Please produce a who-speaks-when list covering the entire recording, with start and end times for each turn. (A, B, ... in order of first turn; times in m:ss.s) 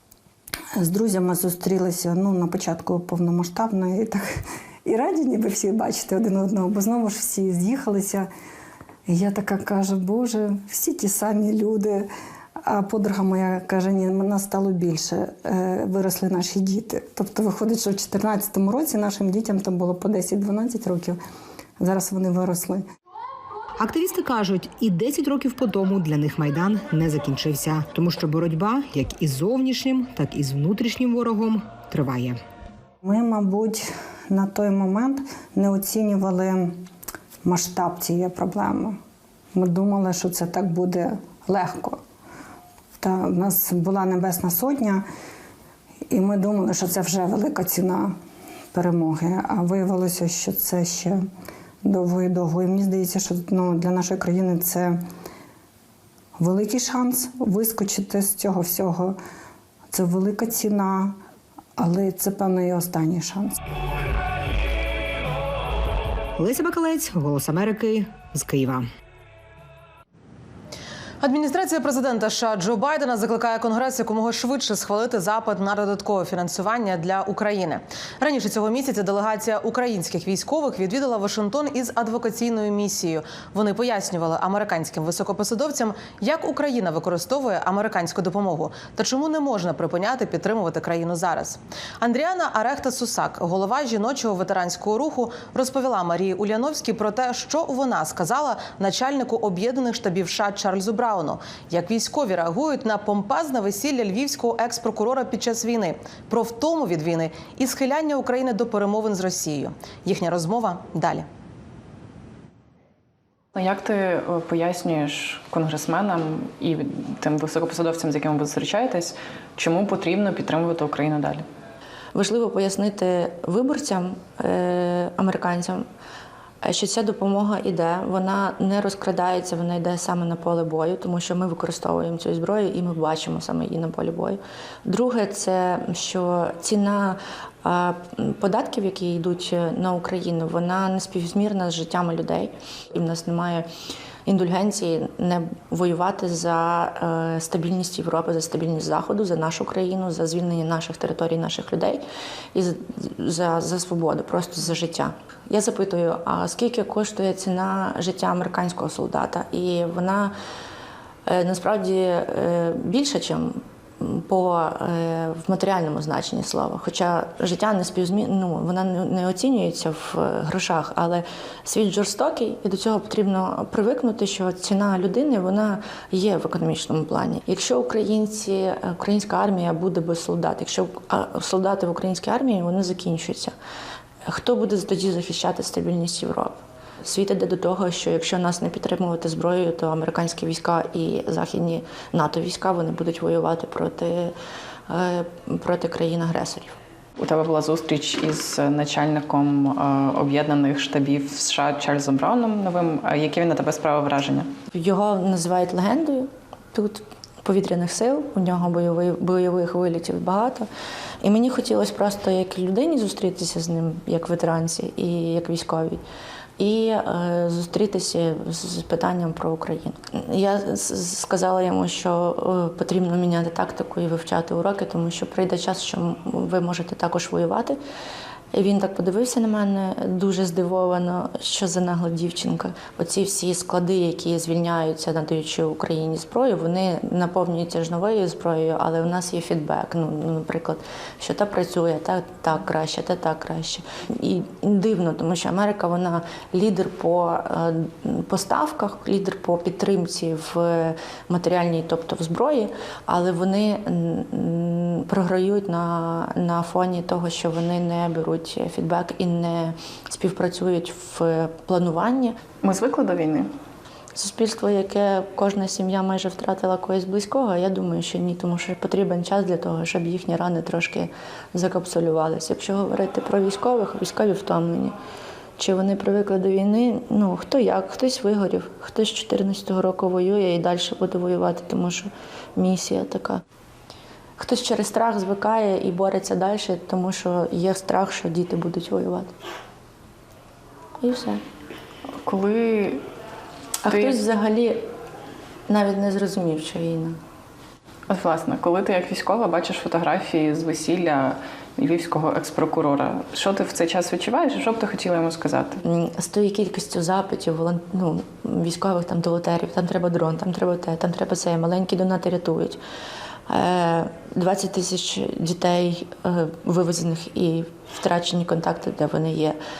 0:00.8-0:08.3 A
0:09.1-0:12.1 A
0:12.6-0:21.2 A
0:21.8-0:22.8 A
0:23.8-0:32.4 B
0:33.0-0:36.8 A
0:37.4-0:39.0 A
0:39.5-0:42.0 A
0:43.0-0:45.0 A
0:46.1-0:48.2 A
0:48.7-0:51.2 A
0:51.8-0:55.0 A
0:56.4-0:59.2 A
0:59.9-1:01.2 A
1:01.8-1:03.6 A
1:06.4-1:08.8 B
1:11.2-1:51.2 C
1:53.5-2:01.4 D
2:02.1-2:05.8 E
2:06.6-2:23.7 E
2:24.2-2:32.0 E
2:32.5-2:40.3 E
2:41.3-3:03.5 E
3:04.2-3:14.4 E
3:14.9-3:16.7 E
3:17.2-3:24.5 D
3:24.7-3:30.7 E
3:31.2-3:36.0 E
3:36.6-3:47.8 E
3:48.5-4:22.4 E
4:22.6-4:23.5 D
4:24.1-4:34.9 E
4:35.6-4:43.4 E
4:44.4-4:49.3 E
4:51.0-4:51.4 E
4:52.2-4:53.0 D
4:53.8-4:54.8 E
4:53.8-4:54.2 D
4:55.7-4:57.2 E
4:58.1-5:05.8 D
5:05.8-5:12.8 E
5:13.5-5:19.6 E